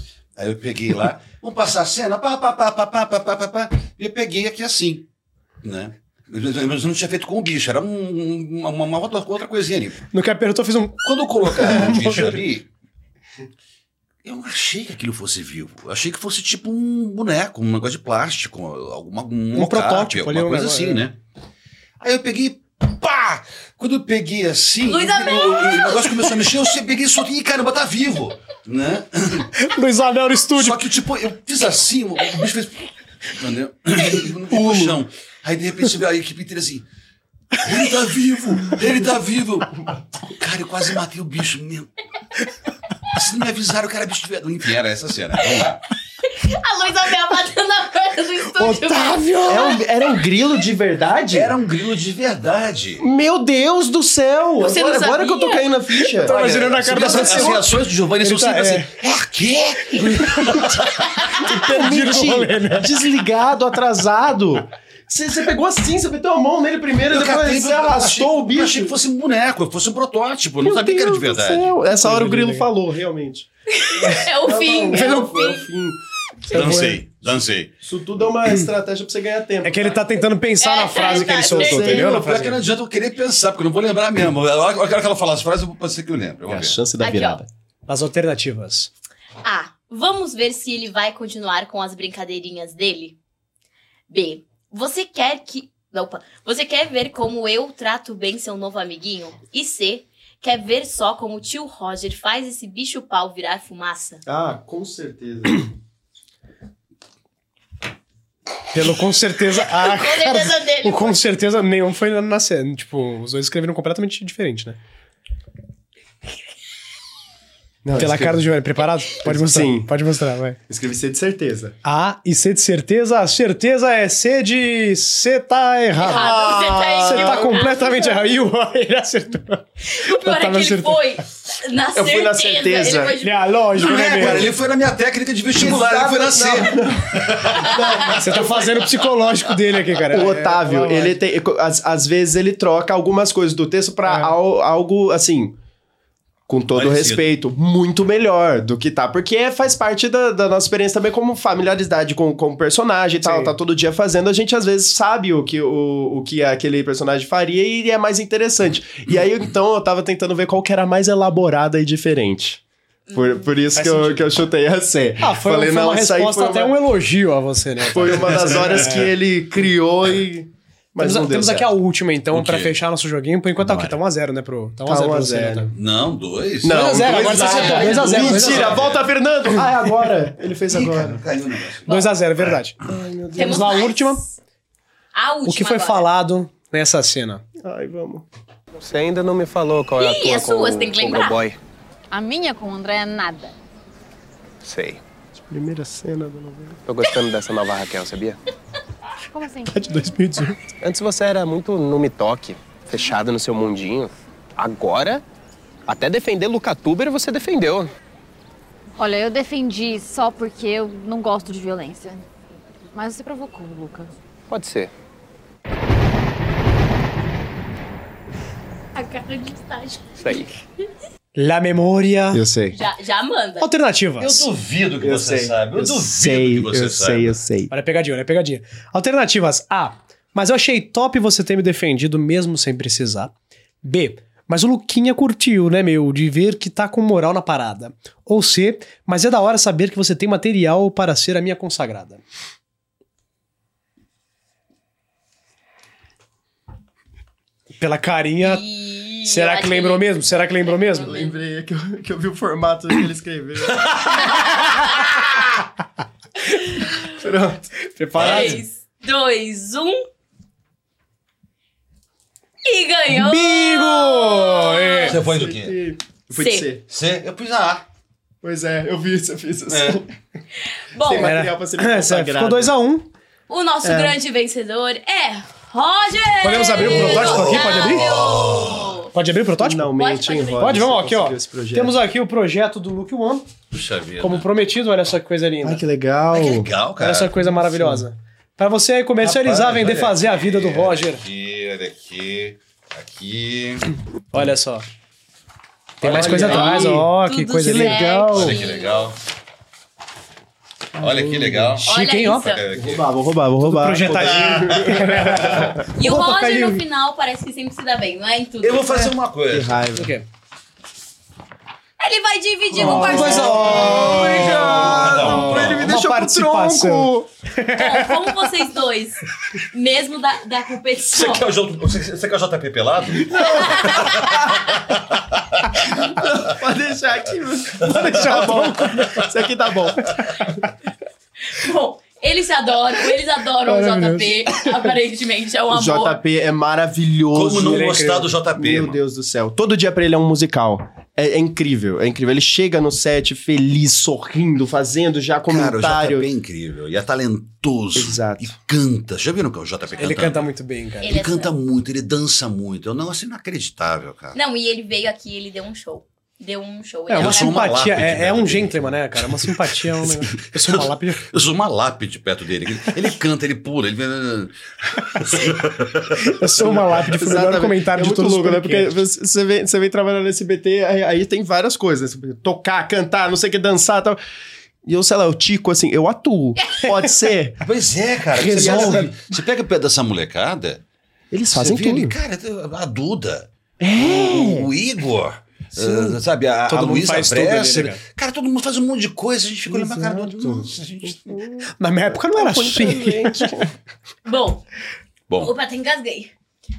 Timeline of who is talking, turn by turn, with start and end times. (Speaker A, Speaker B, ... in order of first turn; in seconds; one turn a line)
Speaker A: 0.4-5.1
Speaker A: 5.6-10.0
Speaker B: 10.1-12.4
Speaker A: 11.0-12.7
Speaker A: 14.2-21.2
Speaker B: 19.5-21.1
Speaker A: 22.0-29.5
Speaker C: 24.9-26.6
Speaker B: 29.6-30.9
Speaker A: 30.6-36.9
Speaker D: 34.6-34.9
Speaker A: 37.6-41.9
Speaker A: 43.1-45.8
Speaker C: 46.2-49.8
Speaker B: 48.6-49.8
Speaker D: 49.5-51.6
Speaker A: 51.3-53.1
Speaker D: 53.0-57.6
Speaker C: 54.6-55.6
Speaker B: 56.1-57.7
Speaker A: 56.3-61.4
Speaker B: 58.2-58.9
Speaker B: 61.4-63.0
Speaker D: 61.4-69.0
Speaker A: 67.1-71.7
Speaker D: 70.6-76.9
Speaker B: 71.9-72.7
Speaker C: 73.7-75.7
Speaker B: 76.5-77.0
Speaker A: 76.5-77.7
Speaker D: 77.8-80.0
Speaker B: 79.6-82.5
Speaker C: 80.6-82.1
Speaker D: 81.1-82.4
Speaker A: 81.8-86.8
Speaker D: 86.5-87.5
Speaker C: 87.0-87.4
Speaker B: 87.9-88.9
Speaker C: 89.4-93.2
Speaker C: 94.1-104.2
Speaker D: 104.3-105.7
Speaker B: 108.7-114.8
Speaker C: 109.7-111.2
Speaker D: 117.8-118.6
Speaker B: 118.0-120.6
Speaker D: 119.2-119.9
Speaker D: 120.7-121.8
Speaker B: 121.8-126.3
Speaker D: 126.0-127.7
Speaker C: 126.0-128.3
Speaker B: 127.0-131.0
Speaker C: 129.9-133.6
Speaker D: 131.9-133.2
Speaker B: 133.2-134.5
Speaker A: 133.8-138.2
Speaker D: 135.5-138.7
Speaker B: 138.2-141.2
Speaker D: 140.1-145.6
Speaker B: 144.1-144.3
Speaker D: 146.5-166.8
Speaker A: 146.7-147.2
Speaker B: 153.2-153.5
Speaker C: 163.1-163.4
Speaker B: 163.7-164.3
Speaker B: 165.2-169.0
Speaker D: 167.8-171.7
Speaker A: 168.2-169.1
Speaker B: 171.0-175.7
Speaker A: 172.3-172.7
Speaker A: 173.6-174.0
Speaker D: 174.8-175.7
Speaker A: 175.7-179.1
Speaker D: 176.6-181.2
Speaker B: 176.7-179.0
Speaker A: 180.7-182.6
Speaker B: 181.9-182.8
Speaker D: 182.8-183.7
Speaker B: 183.3-184.2
Speaker C: 183.3-184.3
Speaker C: 185.1-186.1
Speaker B: 185.5-187.4
Speaker D: 187.6-188.3
Speaker E: 188.8-191.6
Speaker C: 190.0-191.4
Speaker F: 192.1-193.5
Speaker E: 194.6-195.0
Speaker D: 195.4-196.9
Speaker E: 196.9-198.4
Speaker F: 199.3-199.9
Speaker B: 199.7-200.6
Speaker E: 200.8-204.1
Speaker D: 203.3-204.1
Speaker E: 204.6-205.2
Speaker E: 205.9-207.9
Speaker D: 206.7-206.9
Speaker F: 209.0-212.2
Speaker F: 212.9-214.1
Speaker E: 214.5-214.9
Speaker C: 218.9-220.4
Speaker E: 220.2-220.5
Speaker B: 221.4-222.4
Speaker D: 222.3-222.8
Speaker C: 222.7-223.7
Speaker B: 223.6-224.5
Speaker A: 224.2-227.4
Speaker D: 225.0-227.7
Speaker B: 227.7-242.2
Speaker B: 247.8-248.6
Speaker C: 248.4-251.4
Speaker B: 249.2-251.1
Speaker D: 251.0-254.2
Speaker C: 254.3-255.1
Speaker C: 256.6-257.1
Speaker D: 257.1-257.7
Speaker B: 257.9-258.6
Speaker A: 258.1-258.6
Speaker C: 258.2-260.1
Speaker C: 262.6-265.2
Speaker B: 263.1-265.1
Speaker A: 265.1-265.8
Speaker D: 265.1-266.9
Speaker C: 266.4-266.7
Speaker A: 266.9-267.9
Speaker D: 268.4-270.1
Speaker A: 269.7-270.0
Speaker C: 270.9-271.3
Speaker D: 271.0-272.7
Speaker B: 271.2-273.1
Speaker C: 273.5-279.1
Speaker D: 273.8-274.2
Speaker B: 276.4-278.1
Speaker A: 276.9-279.0
Speaker B: 279.1-279.9
Speaker D: 279.6-282.0
Speaker C: 279.9-280.8
Speaker B: 280.6-283.5
Speaker A: 283.7-284.5
Speaker B: 284.2-285.8
Speaker D: 285.6-286.7
Speaker A: 286.3-287.4
Speaker B: 287.0-291.2
Speaker D: 287.6-288.1
Speaker A: 289.2-293.9
Speaker B: 294.3-294.9
Speaker B: 296.0-298.2
Speaker D: 296.0-297.1
Speaker A: 296.0-296.5
Speaker C: 296.3-299.1
Speaker D: 297.6-298.6
Speaker A: 298.3-299.2
Speaker D: 301.0-301.8
Speaker A: 301.0-303.1
Speaker B: 301.8-302.5
Speaker C: 301.8-302.6
Speaker D: 302.7-305.8
Speaker B: 303.6-306.8
Speaker A: 303.9-305.8
Speaker C: 305.9-309.1
Speaker A: 308.6-309.8
Speaker D: 309.5-310.1
Speaker B: 310.0-310.3
Speaker C: 312.0-314.2
Speaker A: 312.8-315.9
Speaker B: 312.8-318.2
Speaker D: 312.8-317.3
Speaker C: 317.7-321.5
Speaker A: 321.1-326.2
Speaker C: 323.3-324.6
Speaker D: 326.1-330.2
Speaker A: 327.8-329.3
Speaker B: 327.9-329.2
Speaker C: 331.5-336.2
Speaker B: 333.7-334.7
Speaker D: 335.7-346.3
Speaker A: 337.3-339.0
Speaker B: 337.6-338.3
Speaker A: 345.5-350.5
Speaker D: 347.9-348.5
Speaker C: 349.9-350.2
Speaker B: 350.0-351.1
Speaker C: 351.0-351.6
Speaker A: 351.0-354.4
Speaker C: 354.3-357.6
Speaker B: 357.1-361.3
Speaker A: 357.1-366.8
Speaker B: 366.2-369.0
Speaker D: 366.6-374.2
Speaker D: 374.8-377.6
Speaker A: 377.6-380.8
Speaker B: 378.4-379.1
Speaker D: 378.5-379.1
Speaker D: 381.3-382.2
Speaker A: 381.5-391.4
Speaker D: 383.8-384.7
Speaker D: 385.7-386.2
Speaker B: 386.7-388.0
Speaker D: 389.7-393.7
Speaker B: 391.8-393.5
Speaker C: 394.2-394.6
Speaker C: 395.4-396.3